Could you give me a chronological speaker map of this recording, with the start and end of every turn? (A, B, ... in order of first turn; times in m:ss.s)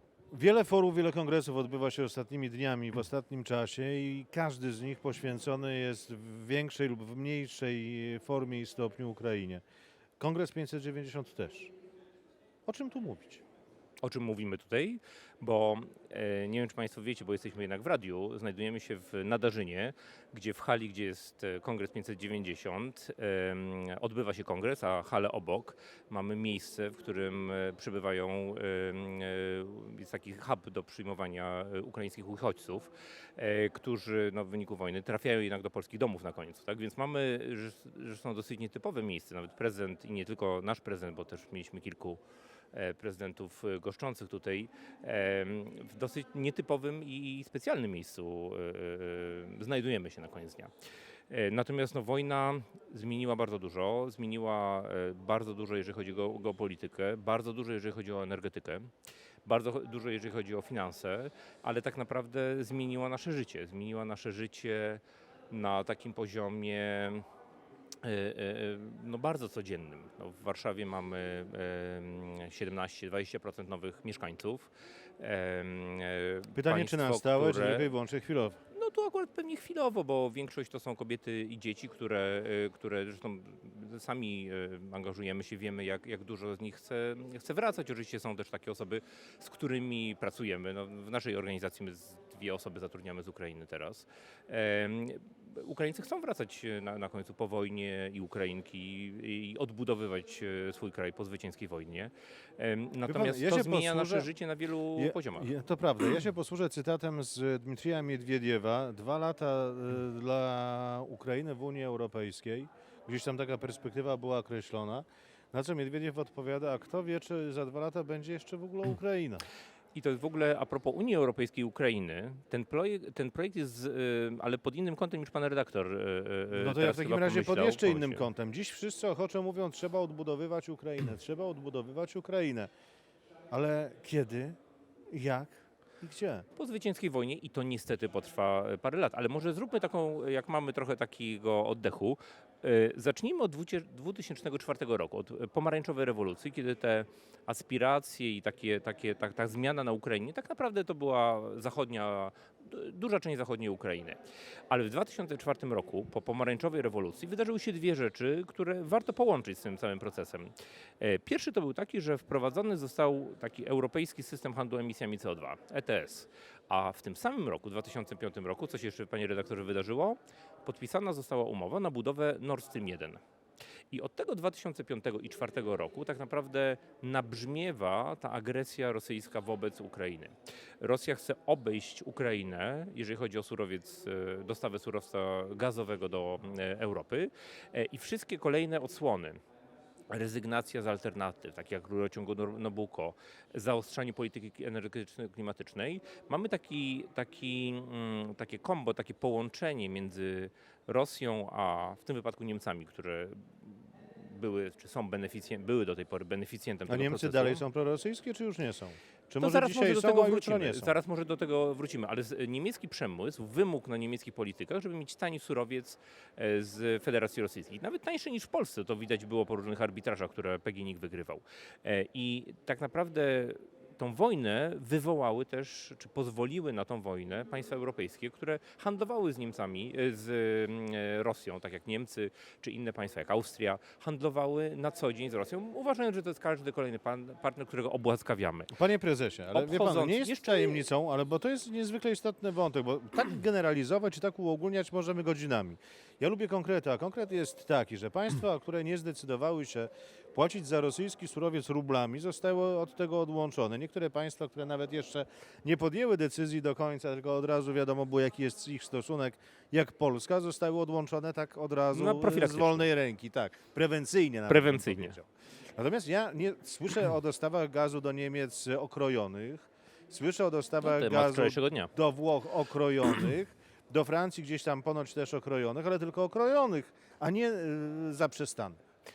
0:00.3-0:09.6 A
0:10.2-0:11.7 A
0:12.6-0:13.4 A
0:14.0-0:42.2 B
0:42.7-0:50.7 B
0:51.3-0:58.9 B
0:59.4-1:07.2 B
1:08.0-1:17.9 B
1:16.5-1:18.6 A
1:18.7-1:45.5 B
1:43.1-1:44.3 A
1:45.0-1:59.4 A
1:59.9-2:08.2 B
2:06.5-2:12.7 A
2:13.5-2:14.6 A
2:15.1-2:16.4 A
2:16.6-2:34.2 B
2:34.7-2:53.2 B
2:53.9-3:09.4 B
3:10.1-3:27.6 B
3:26.9-3:31.0 A
3:29.4-3:58.7 B
3:58.7-4:38.8 A
3:59.5-4:00.8 B
4:21.9-4:22.9 B
4:24.5-4:25.2 B
4:30.8-4:31.9 B